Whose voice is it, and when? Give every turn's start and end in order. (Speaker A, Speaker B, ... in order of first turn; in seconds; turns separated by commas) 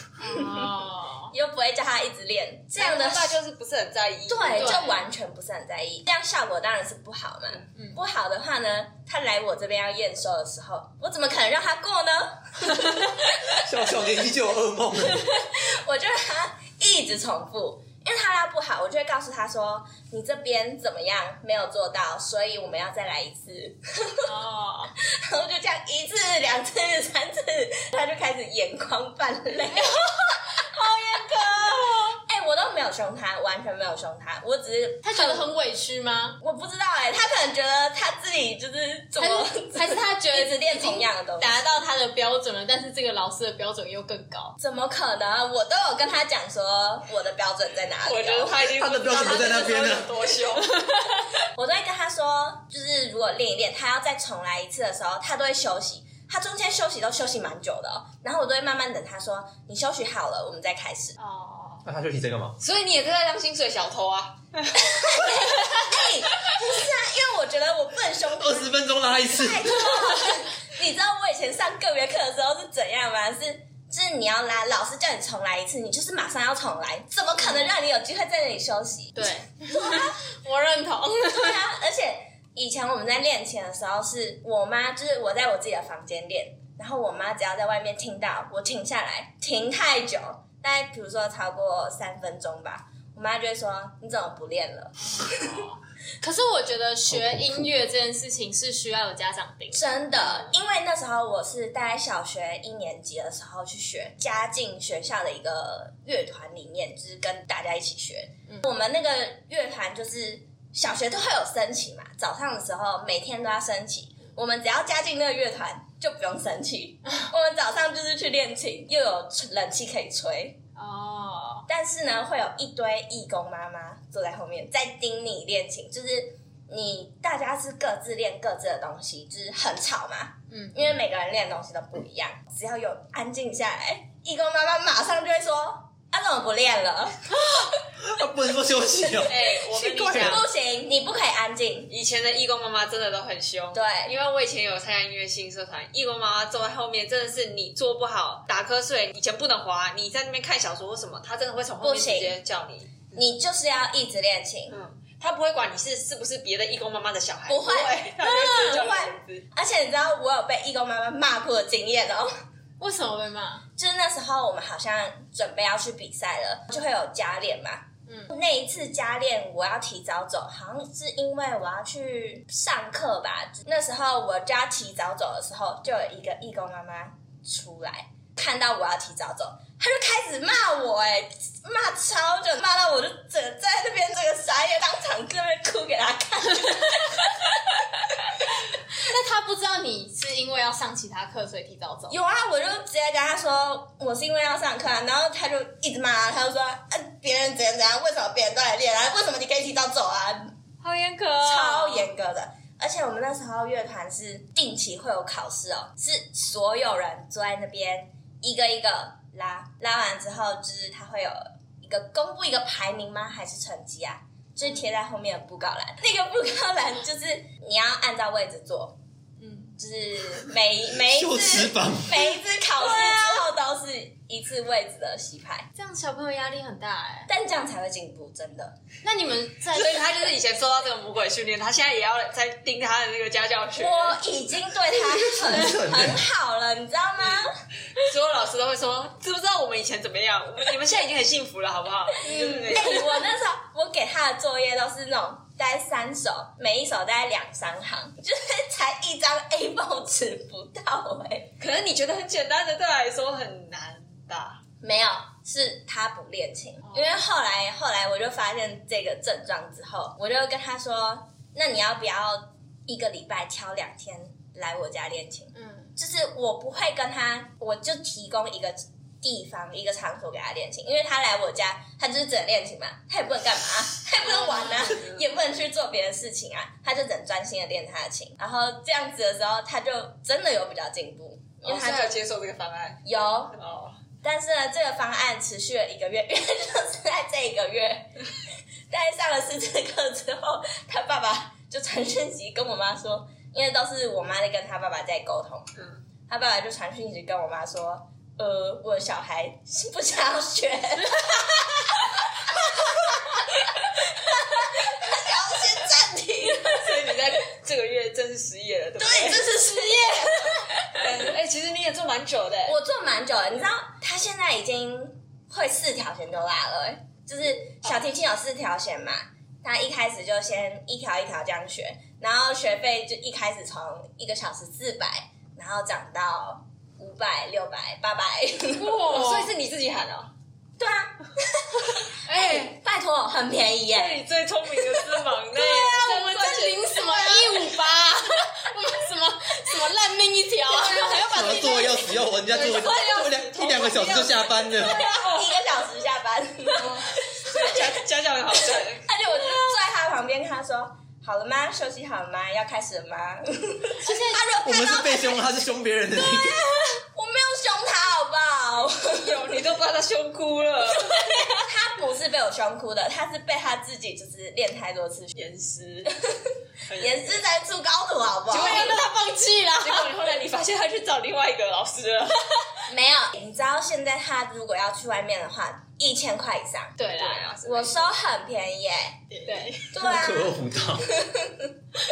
Speaker A: 0.2-1.3, Speaker B: 0.3-0.7, Speaker B: 1.3-3.4, Speaker C: 2.8-5.0, Speaker B: 4.3-13.5, Speaker A: 4.5-5.0, Speaker D: 13.6-15.3, Speaker B: 15.2-24.3, Speaker A: 24.2-24.9, Speaker B: 25.1-30.6, Speaker A: 29.7-30.0, Speaker A: 30.6-32.2, Speaker B: 31.1-35.5, Speaker A: 35.0-36.4, Speaker B: 36.4-41.6, Speaker A: 39.2-44.5, Speaker B: 44.6-48.7, Speaker C: 48.0-50.8, Speaker D: 48.8-50.1, Speaker A: 50.7-51.2, Speaker B: 51.5-61.1, Speaker A: 61.2-61.9, Speaker D: 61.9-62.6, Speaker C: 62.6-64.8, Speaker B: 64.8-80.2, Speaker D: 68.4-70.0, Speaker A: 77.4-77.7, Speaker A: 79.2-81.6, Speaker B: 81.3-95.5, Speaker A: 95.0-99.9, Speaker D: 97.1-97.7, Speaker B: 99.7-120.6, Speaker A: 120.8-121.7, Speaker B: 121.7-137.7, Speaker A: 130.5-130.9, Speaker D: 138.0-139.4, Speaker C: 139.2-140.5, Speaker B: 139.3-141.9, Speaker D: 140.0-140.4, Speaker C: 141.9-153.1, Speaker B: 143.7-144.1, Speaker B: 151.8-152.4, Speaker B: 153.1-154.8, Speaker C: 154.7-159.4, Speaker B: 157.5-162.3, Speaker A: 158.2-158.8, Speaker A: 162.8-163.6, Speaker B: 163.8-188.3, Speaker A: 168.1-168.3, Speaker A: 188.9-192.2, Speaker B: 192.1-200.5, Speaker A: 200.8-202.1, Speaker B: 201.4-219.0, Speaker A: 219.4-219.8, Speaker B: 219.8-225.7, Speaker D: 221.1-222.4, Speaker A: 222.8-223.4, Speaker A: 225.8-227.3, Speaker B: 227.3-228.8, Speaker A: 229.0-229.9, Speaker C: 229.7-234.2, Speaker B: 233.8-237.5, Speaker D: 235.3-236.2, Speaker C: 238.0-243.2, Speaker B: 242.2-251.5, Speaker C: 251.6-254.6, Speaker B: 254.8-282.1, Speaker A: 256.8-257.1, Speaker A: 265.5-265.9, Speaker C: 274.2-275.3, Speaker C: 281.6-284.0, Speaker B: 283.0-283.6, Speaker B: 284.2-288.3, Speaker B: 288.9-295.7, Speaker B: 296.3-307.1, Speaker A: 301.0-301.4, Speaker C: 306.7-309.5, Speaker B: 309.0-311.1, Speaker A: 309.7-310.4, Speaker C: 311.0-312.8, Speaker B: 312.6-329.0, Speaker A: 328.8-329.5, Speaker C: 329.1-330.3, Speaker B: 330.8-334.2, Speaker C: 332.2-332.8, Speaker C: 333.9-337.5, Speaker A: 335.5-343.3, Speaker B: 336.0-336.7, Speaker C: 340.7-341.5, Speaker D: 341.2-345.0, Speaker C: 342.5-345.6, Speaker B: 344.9-347.9, Speaker C: 346.8-349.1, Speaker B: 349.0-355.5, Speaker A: 354.0-354.6, Speaker D: 354.6-356.6, Speaker B: 356.1-359.4, Speaker C: 359.1-361.2, Speaker B: 361.0-365.4, Speaker C: 365.4-366.1, Speaker B: 366.0-369.0, Speaker C: 366.9-367.4, Speaker C: 368.5-369.1, Speaker A: 368.5-370.1, Speaker C: 369.8-372.6, Speaker B: 372.9-377.0, Speaker A: 377.0-377.4, Speaker C: 377.1-378.1, Speaker B: 377.5-379.2, Speaker C: 379.3-379.8, Speaker A: 379.5-379.9, Speaker B: 379.9-381.7, Speaker D: 380.0-381.2